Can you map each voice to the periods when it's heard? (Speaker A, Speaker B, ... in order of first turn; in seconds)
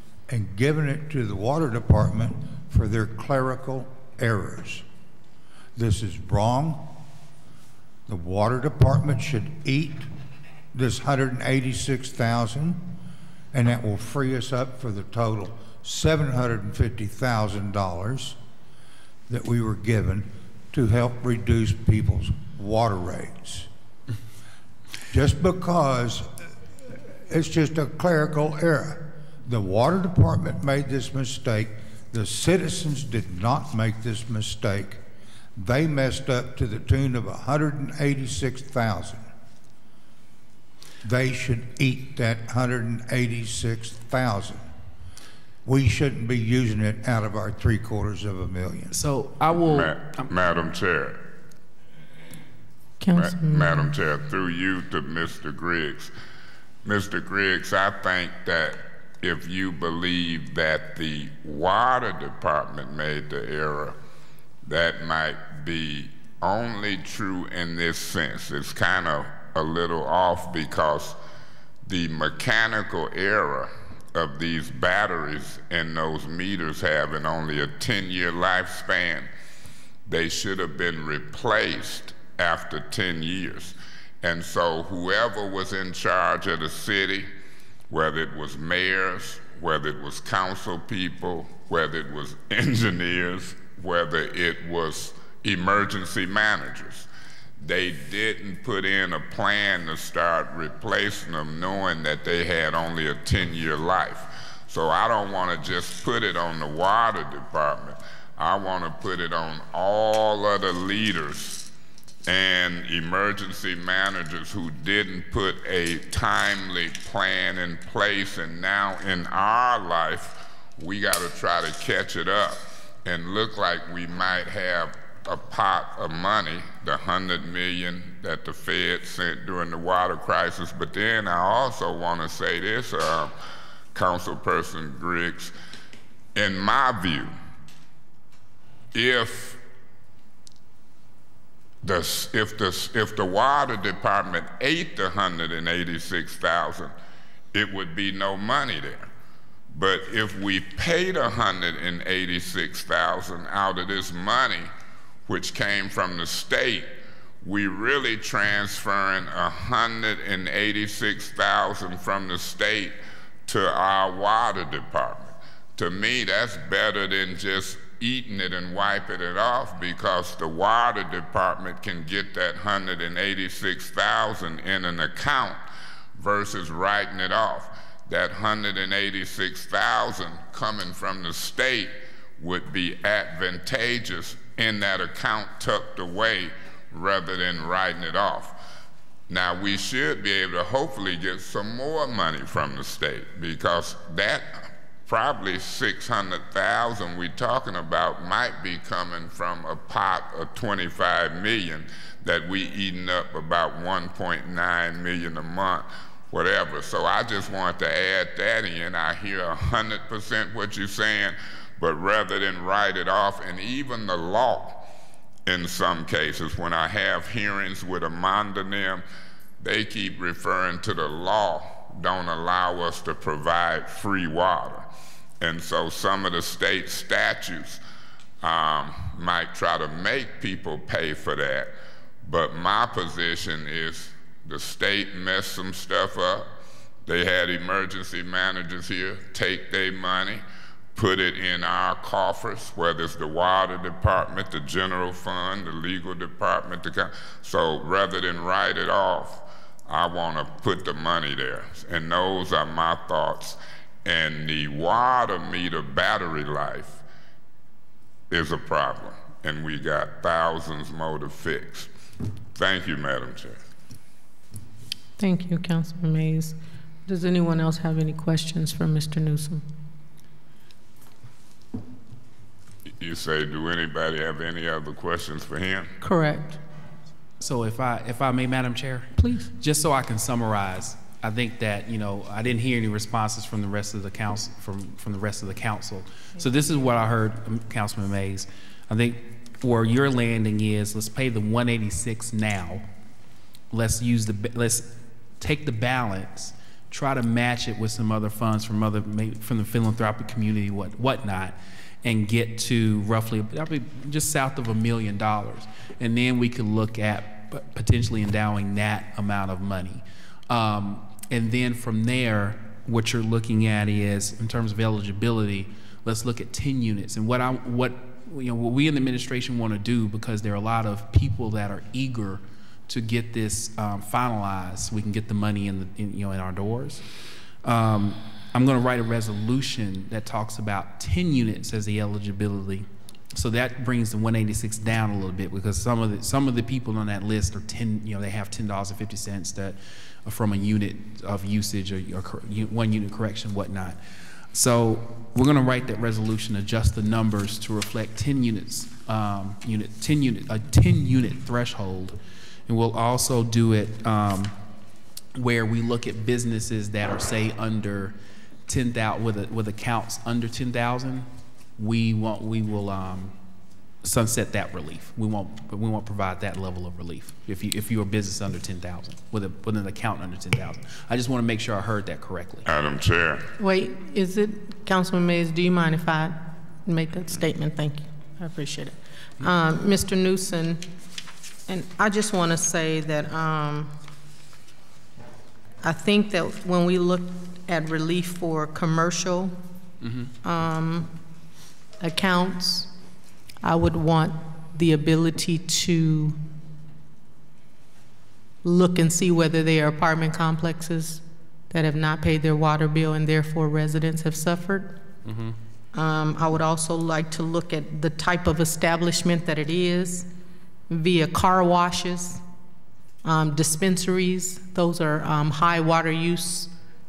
Speaker A: 0.3-4.8, 5.8-7.0, 8.1-10.1, 10.7-12.9, 13.5-18.4, 19.3-23.7, 25.1-26.3, 26.9-35.0, 35.5-39.2, 41.0-44.6, 45.6-49.0
Speaker B: 48.9-50.3, 277.4-292.9, 293.7-327.0, 327.6-344.0, 344.5-354.6, 355.3-358.1, 358.7-363.4, 364.0-372.7, 390.0-390.3, 405.2-405.6
Speaker C: 49.6-51.2, 53.1-56.1, 56.8-64.0, 64.6-71.2, 71.8-79.3, 80.0-87.3, 87.9-97.1, 97.6-111.7, 112.3-133.3, 133.9-135.5, 136.3-137.3, 138.9-139.6, 141.8-146.9, 147.5-149.1, 149.7-154.7, 155.3-156.9, 157.4-162.9, 163.4-175.6, 176.2-188.6, 189.3-214.9, 215.4-219.0, 219.6-224.9, 225.4-227.8, 228.4-236.5, 237.1-240.4, 240.9-257.0, 258.3-261.9, 262.6-263.6, 273.0-275.9, 372.6-373.4
Speaker D: 53.0-53.9, 265.2-269.6, 276.0-276.6, 279.2-279.5, 373.6-380.9, 381.7-383.9, 385.8-389.6, 390.4-391.1, 392.0-392.9, 393.6-396.4, 398.6-405.0, 405.9-410.3, 410.9-412.4, 413.2-416.7